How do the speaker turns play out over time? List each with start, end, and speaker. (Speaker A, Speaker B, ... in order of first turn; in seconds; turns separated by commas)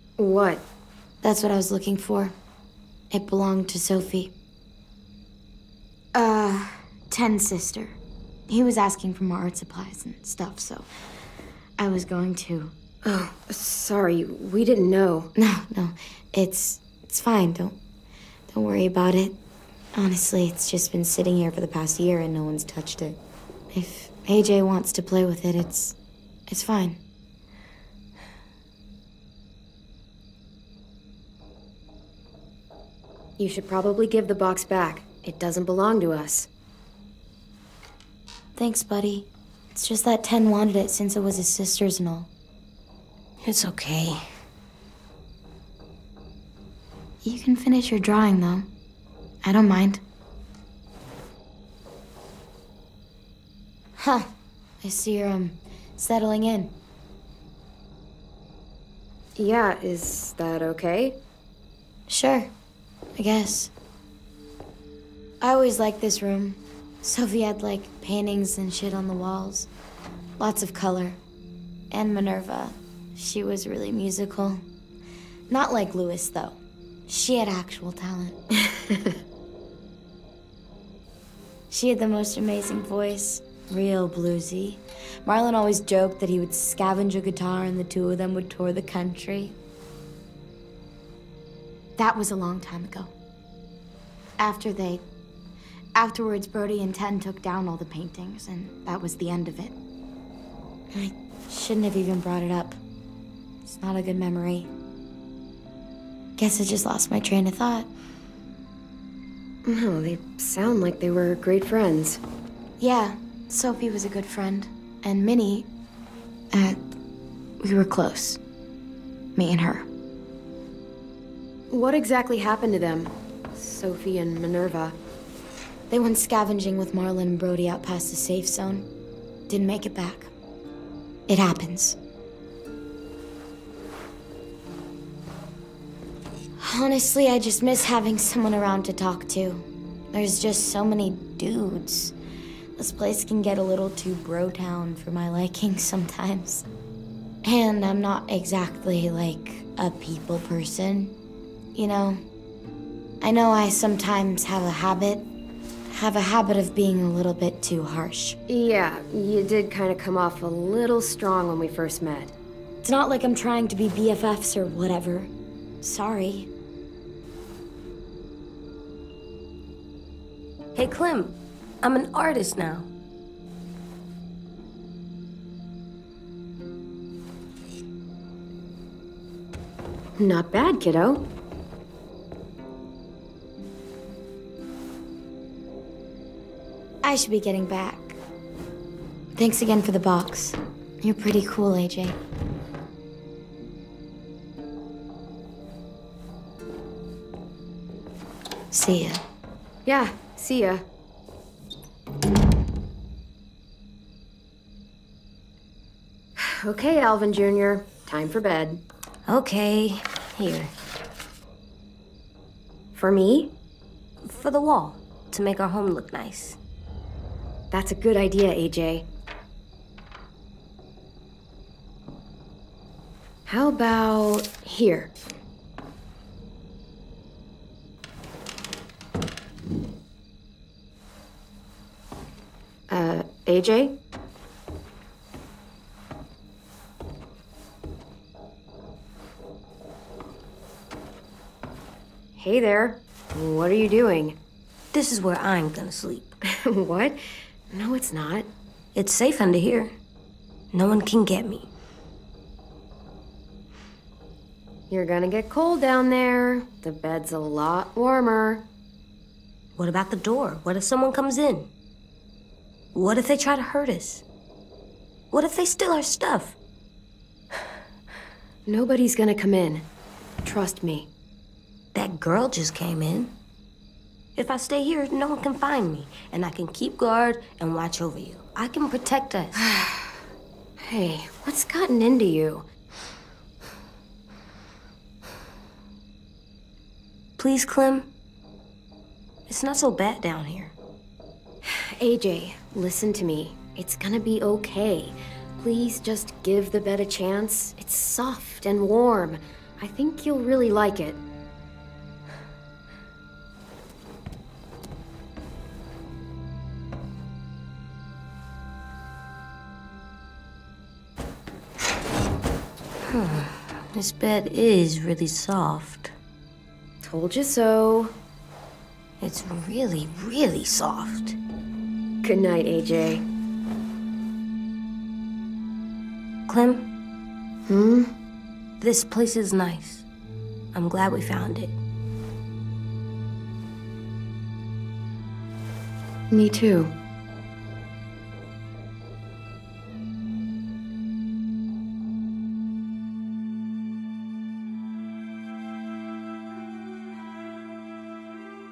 Speaker A: 0.2-0.6, Speaker B: 1.2-2.4, Speaker B: 3.1-4.3, Speaker B: 6.1-8.0, Speaker B: 8.5-10.9, Speaker B: 11.8-12.8, Speaker A: 13.0-15.3, Speaker B: 15.4-17.8, Speaker B: 18.5-19.4, Speaker B: 19.9-23.2, Speaker B: 23.7-26.0, Speaker B: 26.5-27.0, Speaker A: 33.4-36.5, Speaker B: 38.6-42.3, Speaker C: 43.4-44.3, Speaker B: 47.2-48.7, Speaker B: 49.4-50.0, Speaker B: 54.0-54.3, Speaker B: 54.8-56.7, Speaker A: 59.4-61.2, Speaker B: 62.1-62.5, Speaker B: 63.2-63.7, Speaker B: 65.4-69.7, Speaker B: 70.4-71.2, Speaker B: 71.9-74.6, Speaker B: 75.5-78.4, Speaker A: 78.7-79.1, Speaker B: 81.7-89.6, Speaker B: 92.0-93.1, Speaker B: 94.4-95.0, Speaker B: 96.0-99.8, Speaker B: 100.9-102.8, Speaker B: 103.7-104.7, Speaker B: 106.4-107.9, Speaker A: 109.7-112.2, Speaker B: 112.8-115.7, Speaker B: 116.5-116.8, Speaker B: 117.6-118.4, Speaker B: 119.4-119.9, Speaker A: 121.7-125.0, Speaker B: 125.9-128.9, Speaker B: 129.5-130.3, Speaker B: 131.3-132.0, Speaker B: 136.6-142.1, Speaker B: 142.8-146.7, Speaker B: 147.4-151.2, Speaker B: 151.8-152.2, Speaker B: 153.2-155.3, Speaker B: 155.9-158.4, Speaker A: 158.5-162.3, Speaker B: 162.8-165.3, Speaker B: 165.8-166.5, Speaker C: 170.8-172.9, Speaker A: 180.2-181.2, Speaker B: 187.0-188.2, Speaker B: 189.3-192.2, Speaker B: 198.7-199.2, Speaker A: 199.9-200.8, Speaker A: 206.4-208.8, Speaker C: 209.3-210.7, Speaker A: 212.9-213.5, Speaker C: 214.2-216.6, Speaker A: 217.7-219.1, Speaker A: 223.5-225.1, Speaker A: 232.9-234.0, Speaker A: 242.4-244.4, Speaker C: 244.9-246.4, Speaker A: 246.5-247.2, Speaker A: 247.7-248.5, Speaker C: 248.9-249.9, Speaker C: 250.7-251.7, Speaker A: 254.9-258.7, Speaker C: 259.8-261.7, Speaker C: 262.9-264.2, Speaker C: 265.3-266.6, Speaker A: 268.7-269.9, Speaker A: 270.4-271.1, Speaker C: 271.9-273.4, Speaker C: 274.4-279.6, Speaker A: 280.8-282.7, Speaker C: 287.4-288.1, Speaker C: 289.5-290.8, Speaker A: 291.7-301.2, Speaker C: 313.1-316.1, Speaker A: 317.0-318.1, Speaker C: 319.2-321.4, Speaker A: 322.2-323.3, Speaker C: 326.5-326.9, Speaker A: 327.7-328.1, Speaker C: 328.8-330.1, Speaker C: 330.7-331.8, Speaker A: 336.3-336.9